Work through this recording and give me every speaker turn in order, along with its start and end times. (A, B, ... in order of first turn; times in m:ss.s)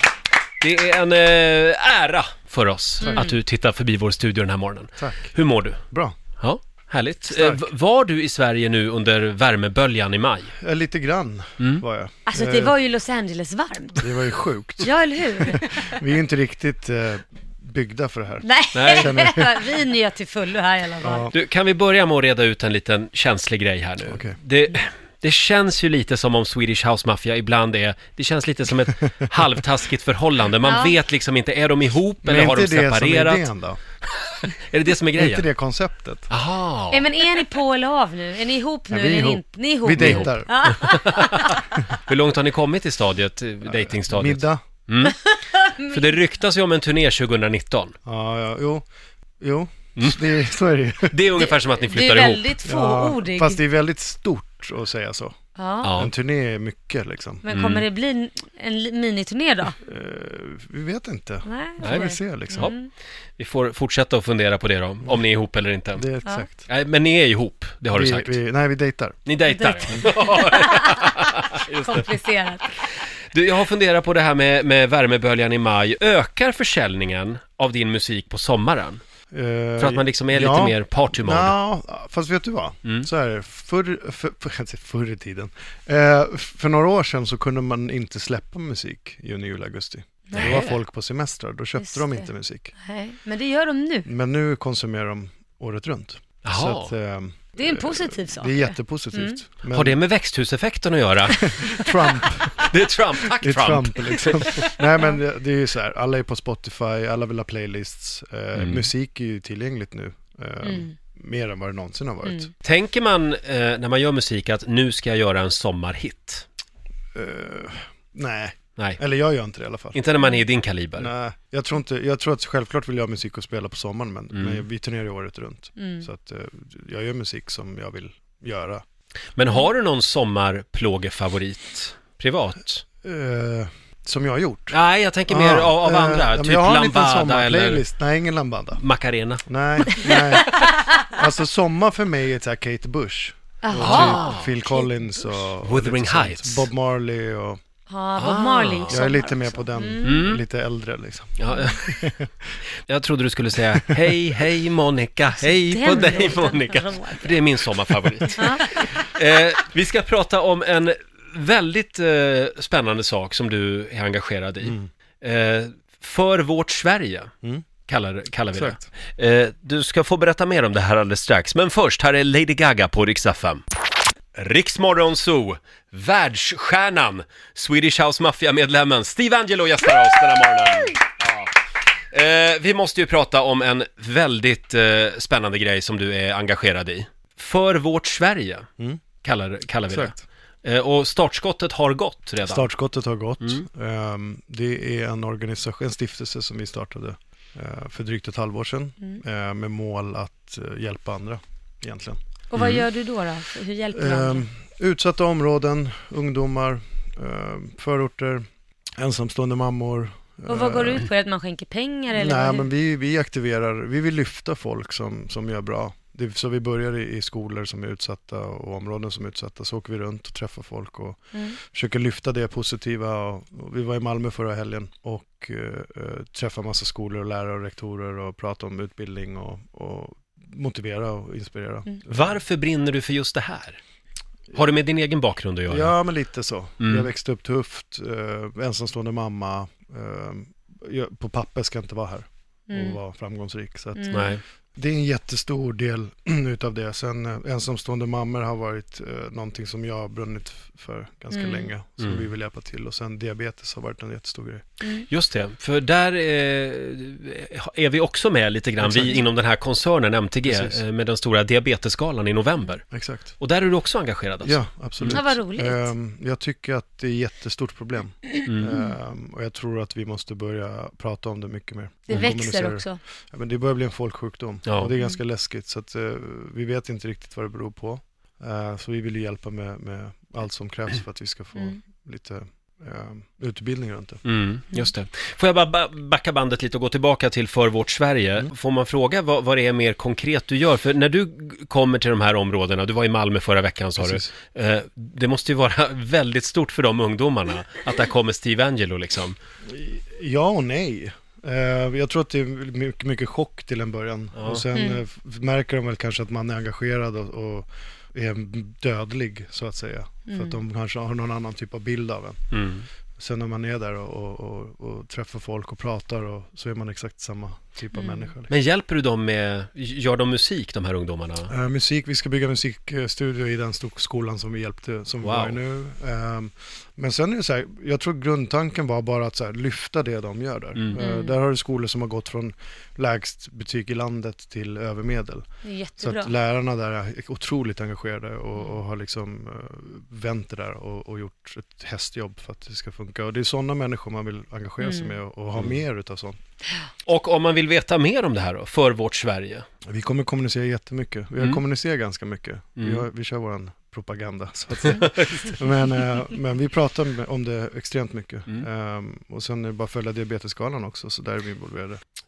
0:00.6-0:05.8 A
0:03.0-0:03.3 B
0:05.0-0:05.3 C
0:06.4-0:10.5 A
0:07.3-0:07.6 C
0:10.5-0:12.8 C
0:12.3-0:14.2 B
0:14.0-0:19.8 C
0:14.8-0:16.0 B
0:18.4-0:21.3 B
0:18.7-0:19.2 A
0:21.0-0:21.3 C
0:21.3-0:33.5 A
0:24.0-0:24.4 C
0:30.6-0:31.0 B
0:32.2-0:33.8 C
0:34.5-0:35.5 A
0:35.2-0:36.3 C
0:36.3-0:37.1 A
0:36.9-0:41.8 B
0:38.9-0:40.8 C
0:40.0-0:48.0 A
0:43.7-0:44.6 C
0:45.3-0:46.1 B
0:48.1-0:48.9 C
0:49.4-0:51.2 C
0:50.0-0:50.4 A
0:51.1-0:52.6 A
0:51.4-0:53.6 B
0:52.6-0:55.4 C
0:55.6-0:55.9 B
0:55.8-0:56.1 A
0:56.0-0:57.4 C
0:57.4-0:59.8 B
0:57.5-0:57.8 A
0:59.8-1:02.7 C
1:01.5-1:02.9 B
1:01.8-1:02.8 A
1:03.4-1:06.1 A
1:06.0-1:06.7 C
1:06.7-1:08.4 A
1:07.9-1:09.3 C
1:09.3-1:12.1 A
1:09.5-1:12.8 B
1:13.3-1:19.0 A
1:19.3-1:32.7 C
1:19.8-1:21.6 A
1:30.3-1:30.6 B
1:30.4-1:30.8 A
1:31.8-1:32.3 B
1:32.8-1:34.1 B
1:34.0-1:40.0 C
1:36.4-1:36.9 A
1:37.6-1:39.4 B
1:39.7-1:41.8 A
1:41.3-1:42.3 B
1:41.4-1:42.7 C
1:42.6-1:44.7 A
1:43.2-1:52.5 C
1:48.6-1:48.9 A
1:50.6-1:50.9 B
1:52.6-1:56.5 A
1:57.2-2:00.0 C
1:59.9-2:01.1 A
2:01.0-2:08.8 C
2:04.3-2:04.6 A
2:05.8-2:06.1 B
2:09.4-2:12.8 A
2:13.0-2:14.8 C
2:14.7-2:17.8 A
2:15.3-2:18.8 C
2:18.8-2:19.4 A
2:19.5-2:27.6 C
2:19.9-2:20.8 B
2:23.6-2:25.3 B
2:23.8-2:24.5 A
2:25.6-2:26.7 A
2:27.9-2:30.2 B
2:28.2-2:29.0 A
2:28.9-2:32.3 C
2:30.0-2:30.4 A
2:31.4-2:32.1 A
2:32.8-2:47.3 A
2:33.8-2:34.1 C
2:35.3-2:37.4 B
2:38.3-2:38.8 B
2:44.6-2:44.9 C
2:47.9-2:53.6 A
2:48.5-2:48.9 C
2:54.4-3:01.5 A
3:02.1-3:08.7 A
3:09.2-3:12.7 A
3:09.9-3:10.2 C
3:12.4-3:22.2 C
3:22.5-3:24.5 B
3:22.6-3:22.9 A
3:23.9-3:28.4 C
3:29.0-3:31.1 C
3:30.5-3:32.7 B
3:32.1-3:52.3 C
3:52.1-3:53.8 A
3:54.5-3:56.0 A
3:55.7-4:14.7 C
3:56.8-3:57.1 A
4:02.7-4:03.0 B
4:04.0-4:04.3 B
4:04.1-4:04.4 A
4:11.3-4:11.7 B
4:12.0-4:12.3 A
4:15.1-4:22.8 A
4:18.8-4:19.2 C
4:20.4-4:20.8 C
4:22.9-4:23.3 C
4:23.4-4:25.2 A
4:24.4-4:44.2 C
4:25.1-4:25.9 B
4:28.5-4:28.8 A
4:32.1-4:33.0 B
4:34.7-4:34.9 A
4:44.2-4:59.4 A
4:54.0-4:54.3 C
4:59.7-5:12.4 C
5:04.4-5:04.6 A
5:04.7-5:05.0 B
5:10.3-5:10.6 B
5:12.5-5:12.9 A
5:13.2-5:18.5 C
5:17.9-5:18.3 B
5:18.5-5:21.5 A
5:21.5-5:35.4 C
5:25.2-5:25.6 A
5:31.0-5:31.4 B
5:35.6-5:36.3 B
5:36.0-5:46.4 C
5:44.8-5:45.2 B
5:47.1-5:49.7 A
5:49.9-6:02.0 C
5:52.8-5:53.0 A
5:54.8-5:55.6 A